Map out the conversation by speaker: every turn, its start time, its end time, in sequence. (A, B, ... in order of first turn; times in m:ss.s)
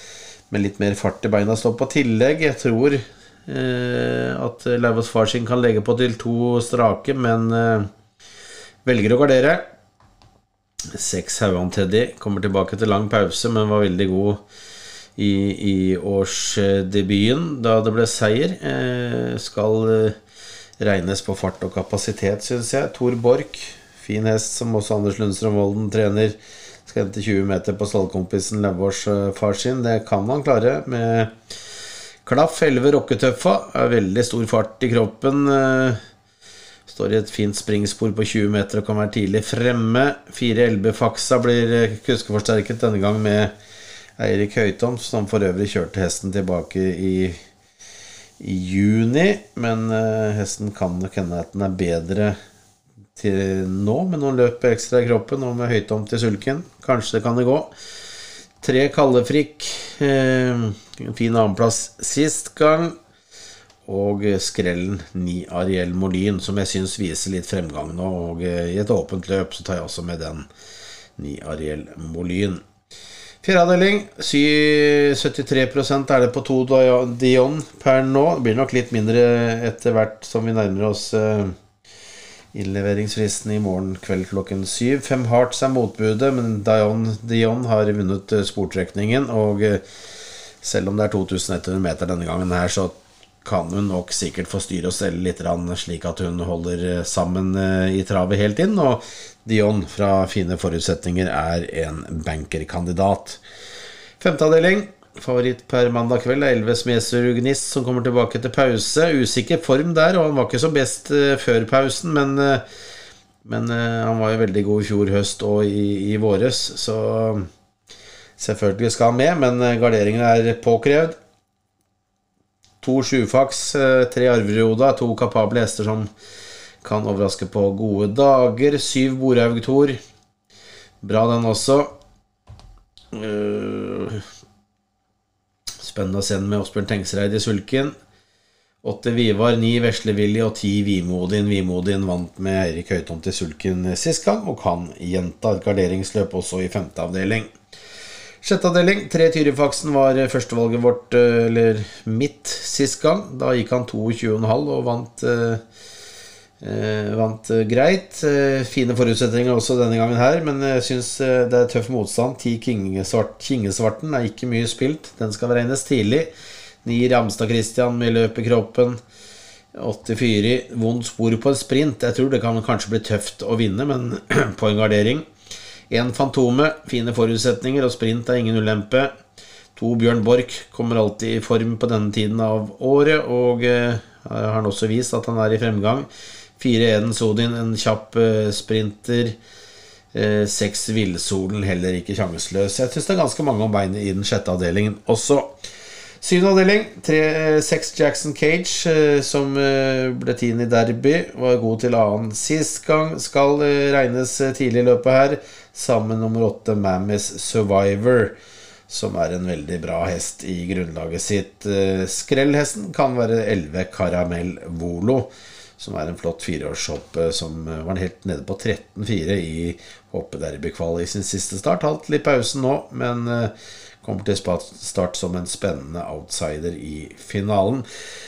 0:00.5-0:07.9 A
0:08.8-0:09.6 A
0:10.9-0:14.4 A
0:15.2-0:20.2 A
0:20.8-0:31.3 A
0:32.2-0:36.0 A
0:36.9-0:43.5 A
0:44.2-0:47.4 A
0:48.4-0:52.4 A
0:53.2-0:57.7 A
0:58.6-1:03.0 A
1:03.9-1:10.5 A
1:11.2-1:12.6 A
1:13.4-1:21.6 A
1:22.5-1:29.8 A
1:30.6-1:43.4 A
1:44.2-1:52.6 A
1:53.4-1:57.5 A
1:58.4-2:01.2 A
2:02.8-2:06.1 A
2:06.8-2:10.0 A
2:11.0-2:11.9 A
2:13.1-2:14.2 A
2:15.8-2:18.0 A
2:18.8-2:27.5 A
2:28.4-2:35.6 A
2:36.6-2:46.3 A
2:46.8-2:49.0 A
2:49.8-2:55.2 A
2:55.9-2:59.1 A
2:59.8-3:06.1 A
3:06.6-3:09.4 A
3:10.1-3:15.6 A
3:16.2-3:28.4 A
3:28.9-3:47.9 A